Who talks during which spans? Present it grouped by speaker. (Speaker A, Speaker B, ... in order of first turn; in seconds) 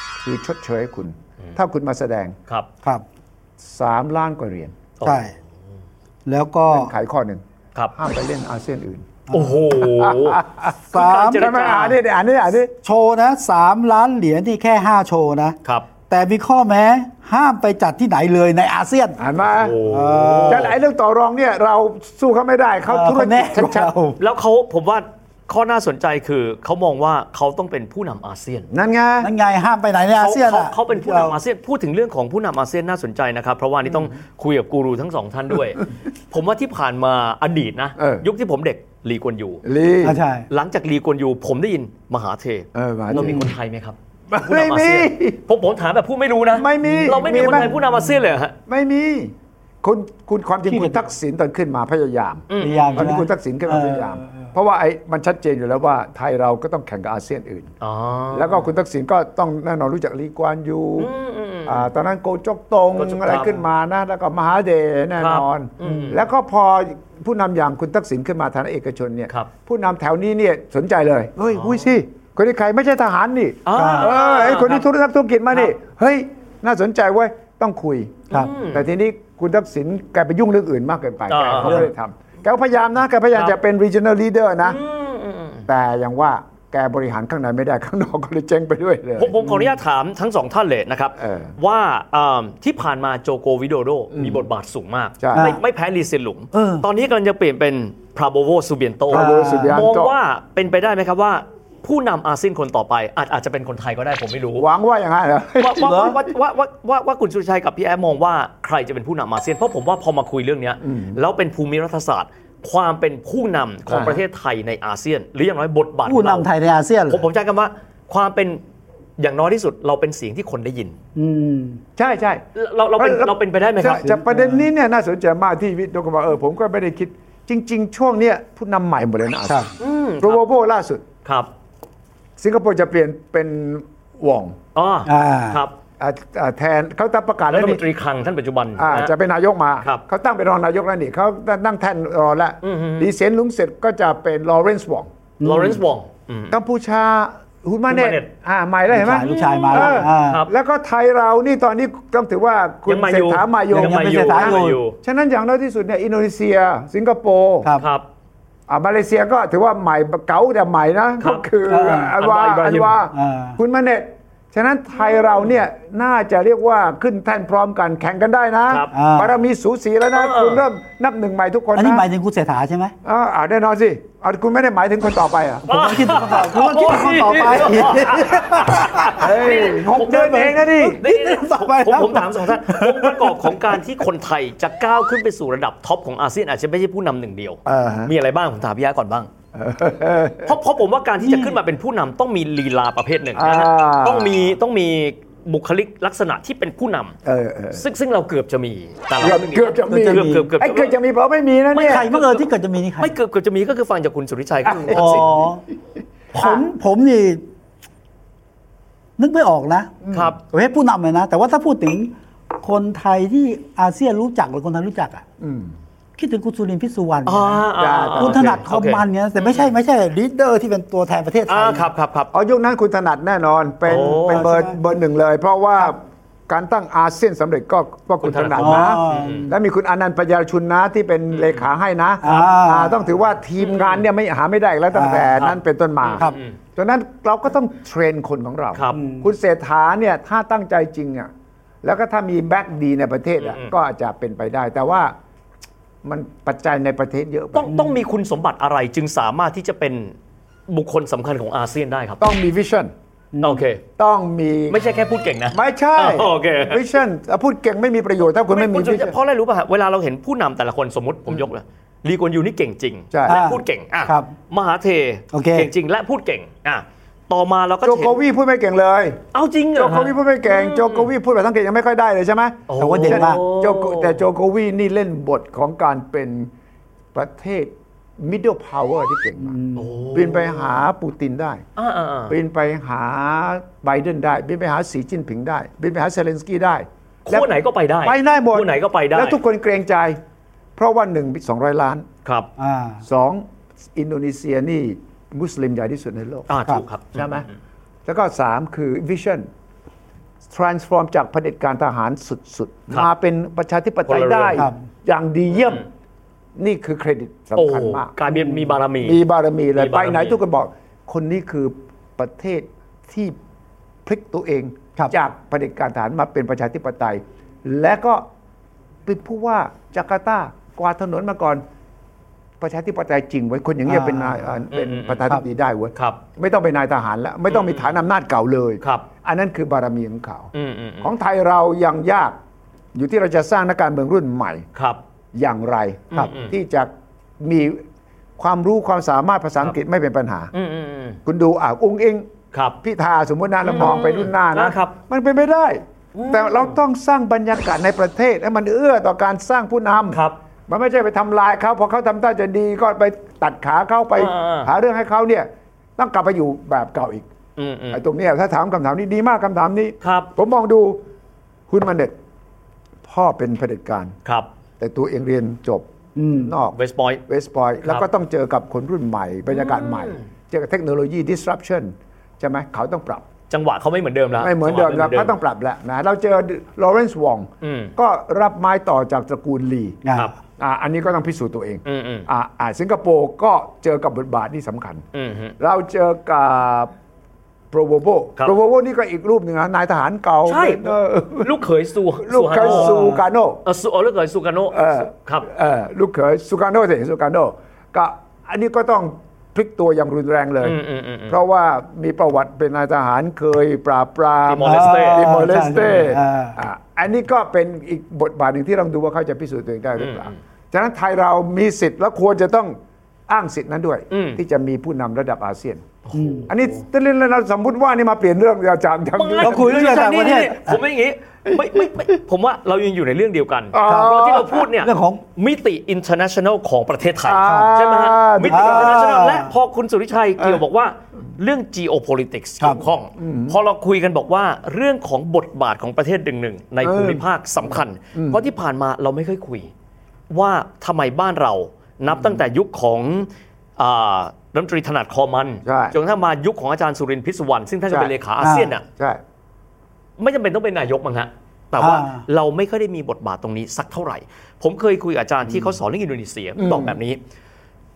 Speaker A: 0.2-2.3, 3.6-4.7, 6.7-7.4, 8.0-12.7, 19.2-19.8, 20.5-23.9, 28.7-29.3, 38.0-38.2, 39.6-40.2, 42.7-43.5, 44.3-45.4, 46.5-47.8, 48.7-57.7, 58.3-61.1, 61.6-84.8, 85.7-89.3, 91.2-91.5, 94.1-94.4, 95.2-95.5, 99.1-100.1, 104.6-106.3, 110.8-111.2, 113.9-114.2, 122.0-122.4, 123.0-129.7, 130.2-131.1, 132.4-134.6, 136.0-137.8, 138.8-145.1, 146.5-157.7, 158.7-172.1, 173.1-175.7, 179.1-181.0, 187.7-188.1, 189.5-190.6, 193.4-194.6, 197.2-197.8, 199.2-202.1, 204.6-205.4, 210.0-210.3, 215.4-215.7, 217.8-218.6, 222.3-241.3, 241.8-245.1, 246.0-247.8, 252.2-252.9, 254.0-254.8, 255.5-259.1, 263.1-263.4, 267.8-269.2, 269.7-276.5, 277.1-279.6, 280.1-281.6, 282.3-287.5, 288.0-290.2, 290.8-292.1, 293.1-293.4, 293.9-296.6, 297.1-297.5, 298.1-299.5, 300.5-305.9, 306.6-308.1, 309.0-313.4, 314.1-318.2, 319.1-321.6, 322.6-332.4, 332.9-334.7, 335.3-337.8, 338.4-340.5, 341.3-342.3, 342.8-357.3, 357.9-361.0, 361.7-362.1, 363.1-364.1, 364.8-366.8, 367.3-373.3, 374.4-380.0, 380.6-385.0, 385.6-386.9, 387.7-391.7, 392.2-393.6, 394.7-412.8, 413.3-415.9, 416.5-419.8, 423.7-424.7, 427.2-429.0, 433.2-433.6, 436.8-437.2, 438.1-438.4, 442.1-442.4, 445.6-445.9, 448.9-449.2, 456.6-456.9
Speaker B: 5.0-5.3, 9.3-12.0, 19.5-20.7, 24.2-28.7, 30.1-39.6, 40.5-48.5, 52.5-53.1, 57.8-58.7, 61.0-61.9, 63.0-63.6, 65.2-66.2, 71.5-71.9, 73.7-74.8, 78.3-78.9, 81.3-81.9, 84.6-85.7, 89.2-104.7, 105.6-116.5, 117.1-118.6, 119.2-121.0, 122.5-124.2, 129.8-130.4, 131.2-131.5, 134.7-135.8, 137.5-139.1, 142.6-143.1, 145.4-146.6, 147.9-148.3, 149.2-150.5, 152.9-155.0, 157.8-158.1, 161.2-161.5, 162.2-163.0, 170.1-170.6, 175.7-189.3, 190.4-197.2, 197.7-200.9, 201.7-202.5, 203.0-205.3, 210.1-210.4, 217.3-219.7, 221.5-222.3, 223.9-224.5, 228.2-229.5, 231.3-231.7, 233.6-234.1, 235.4-236.5, 238.7-239.0, 243.4-243.7, 247.5-250.1, 250.7-252.2, 253.4-253.8, 254.7-256.9, 258.5-268.2, 269.3-271.1, 272.7-274.2, 279.8-280.7, 281.8-282.4, 287.3-289.4, 292.2-292.5, 296.5-297.4, 304.1-304.7, 307.6-309.2, 309.7-310.4, 324.7-325.3, 325.9-326.2, 327.5-327.9, 328.8-329.1, 330.5-331.1, 334.7-335.0, 336.1-336.6, 340.5-341.2, 342.5-342.8, 343.6-344.9, 346.1-346.8, 350.1-350.4, 354.2-354.7, 357.6-358.0, 360.0-360.3, 364.2-364.5, 366.7-367.2, 369.5-370.2, 373.5-375.4, 377.6-377.9, 381.8-382.3, 385.1-385.6, 390.4-395.5, 400.6-401.4, 404.4-405.5, 410.0-410.3, 414.1-414.4, 416.1-416.6, 419.1-439.7, 440.3-448.8, 450.2-457.2
Speaker C: 5.0-5.3, 6.3-6.9, 9.3-9.6, 10.9-11.9, 12.8-15.6, 16.1-19.2, 19.8-20.7, 22.9-24.2, 29.2-31.4, 40.0-40.5, 43.1-43.5, 46.8-47.1, 50.7-51.0, 52.6-54.5, 65.8-66.1, 73.8-74.1, 95.3-95.6, 96.5-96.8, 99.1-99.8, 105.8-106.1, 116.0-117.2, 121.1-121.8, 124.0-124.7, 135.1-135.6, 145.4-145.8, 148.9-150.4, 153.7-154.8, 161.7-162.1, 163.1-163.6, 168.9-169.3, 171.7-172.9, 175.7-183.7, 191.2-191.6, 199.9-200.5, 201.8-203.1, 204.9-205.6, 206.3-207.4, 209.2-209.9, 210.5-215.2, 216.2-221.9, 224.3-224.8, 228.6-229.5, 232.2-233.0, 234.9-235.5, 238.9-239.3, 253.3-253.6, 263.3-264.3, 265.3-265.7, 272.8-273.4, 279.4-279.9, 292.6-293.0, 308.3-308.6, 323.9-324.6, 366.2-366.5, 380.0-380.3, 404.6-406.6, 416.1-416.5, 419.4-420.8, 423.9-425.2, 427.4-427.7, 428.5-429.5, 448.4-448.7, 451.8-452.2